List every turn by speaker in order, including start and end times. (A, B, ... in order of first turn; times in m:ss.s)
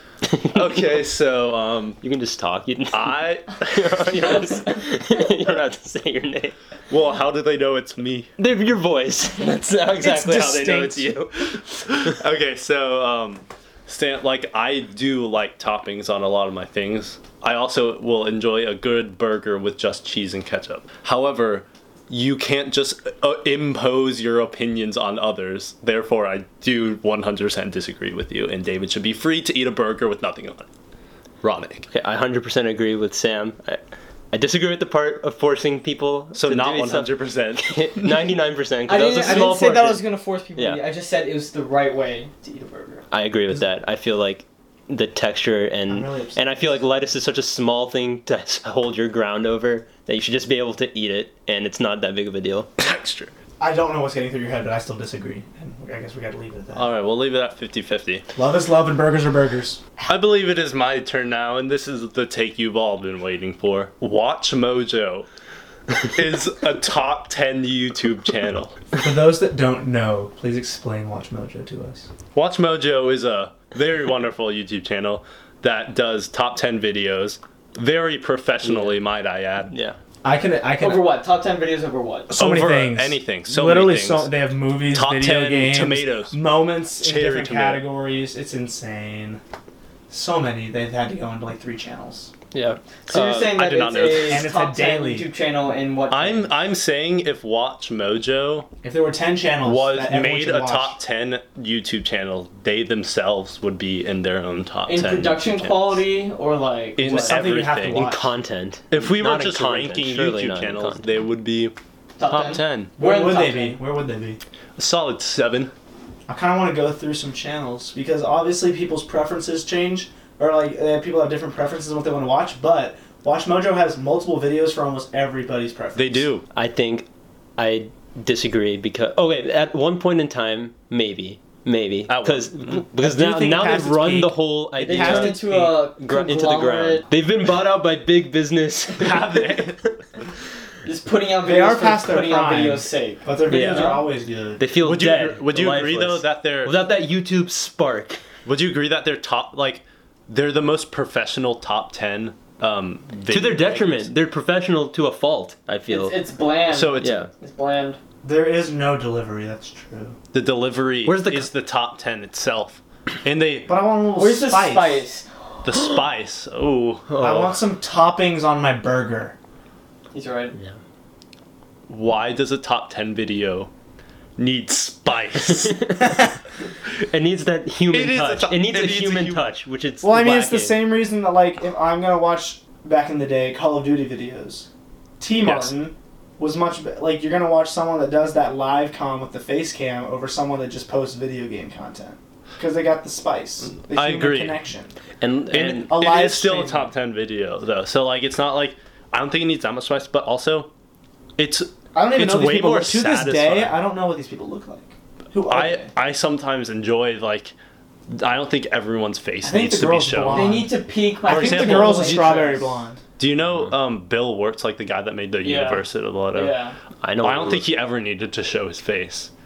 0:00.3-0:00.8 A
0:00.5-0:02.0 B
0:02.0-0:06.6 A
0:02.9-0:04.6 B
0:06.9-0:08.3 B
0:08.4-0:12.2 A
0:10.0-0:11.1 C
0:11.5-0:30.7 B
0:31.4-0:31.9 B
0:31.9-0:33.8 A
0:34.3-0:40.0 A
0:36.3-0:38.3 B
0:38.9-0:43.0 D
0:39.2-0:39.9 B
0:40.6-0:40.8 A
0:43.1-0:52.7 A
0:45.9-0:46.6 C
0:52.8-0:53.3 B
0:53.6-0:56.9 C
0:56.7-0:58.2 B
0:58.4-1:00.1 C
1:00.1-1:05.3 B
1:06.0-1:08.8 B
1:09.0-1:12.1 C
1:12.3-1:19.7 B
1:18.6-1:19.0 A
1:19.7-1:20.0 A
1:20.2-1:21.0 C
1:20.8-1:22.3 D
1:22.3-1:29.4 C
1:22.4-1:24.3 B
1:24.9-1:26.4 B
1:27.0-1:27.8 B
1:30.1-1:32.3 C
1:32.5-1:33.5 A
1:33.1-1:36.5 D
1:33.1-1:34.5 B
1:34.3-1:35.3 C
1:36.1-1:38.7 B
1:38.8-1:41.0 C
1:39.6-1:46.0 B
1:44.9-1:47.4 D
1:47.0-1:48.1 B
1:47.0-1:48.3 C
1:47.9-1:51.1 A
1:48.9-1:52.9 B
1:52.2-1:53.8 D
1:53.0-1:54.4 C
1:54.8-1:55.7 B
1:56.3-2:06.3 C
2:06.0-2:06.4 B
2:06.5-2:07.1 A
2:07.6-2:19.9 A
2:12.1-2:12.8 B
2:13.0-2:15.4 C
2:14.8-2:17.0 D
2:19.0-2:20.0 B
2:20.8-2:24.0 D
2:21.4-2:24.6 C
2:23.5-2:24.0 A
2:23.6-2:23.9 B
2:24.6-2:28.2 A
2:24.8-2:26.7 B
2:28.4-2:34.1 B
2:33.3-2:36.2 A
2:35.9-2:38.0 D
2:36.7-2:37.3 B
2:37.0-2:37.3 A
2:38.2-2:40.2 C
2:40.3-2:43.7 B
2:41.0-2:41.5 A
2:43.7-2:45.0 C
2:44.2-2:45.3 D
2:45.6-2:47.2 B
2:47.1-2:47.6 A
2:47.2-2:49.4 C
2:50.1-2:50.6 D
2:51.9-2:53.7 B
2:54.4-2:56.0 B
2:55.4-2:56.2 A
2:57.0-3:00.8 A
2:57.9-2:59.4 B
3:00.0-3:04.7 C
3:05.2-3:14.9 C
3:05.4-3:05.7 B
3:13.8-3:14.6 B
3:15.2-3:15.9 A
3:15.5-3:20.7 B
3:15.9-3:16.9 C
3:21.4-3:23.8 B
3:21.9-3:25.9 C
3:25.5-3:27.5 B
3:28.1-3:30.6 B
3:29.4-3:30.7 C
3:30.3-3:32.7 D
3:31.2-3:32.6 B
3:31.2-3:33.0 C
3:33.2-3:36.6 B
3:35.4-3:36.8 D
3:37.0-3:37.7 A
3:37.2-3:39.3 B